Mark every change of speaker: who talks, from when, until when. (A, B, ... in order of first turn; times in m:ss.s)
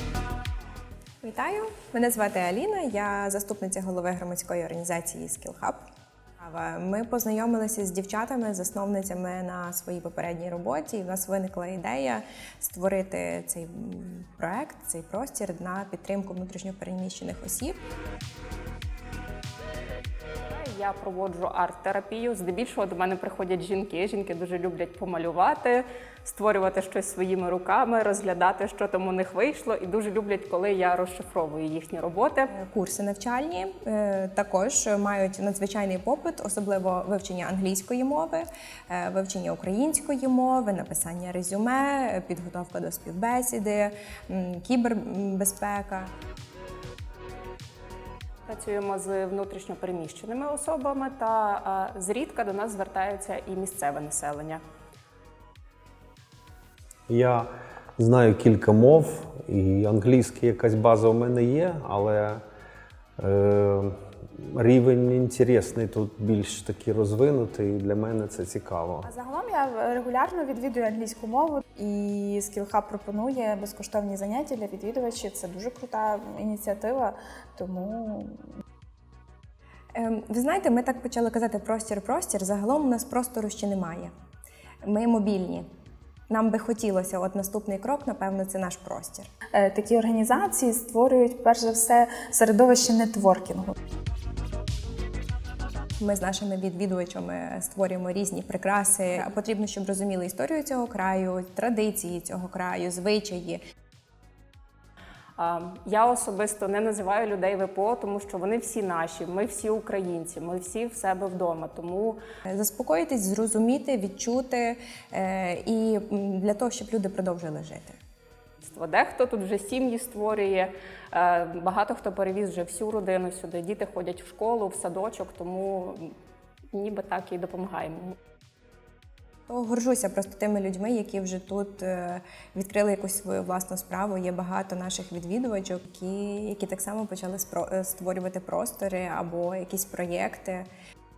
0:01.2-0:05.8 A
0:06.4-0:17.8 A
0:20.5-0:32.5 B
0:32.5-0:46.1 A
0:48.5-0:54.6 B
0:57.1-1:02.4 C
1:03.2-1:09.1 C
1:09.0-1:18.4 D
1:19.9-1:24.1 A
1:24.8-1:25.6 A
1:26.3-1:29.3 A
1:29.5-1:33.7 D
1:36.0-1:43.6 A
1:45.4-1:52.2 B
1:52.5-1:58.0 A
1:58.6-2:06.1 B
2:06.7-2:08.2 B
2:09.5-2:20.7 A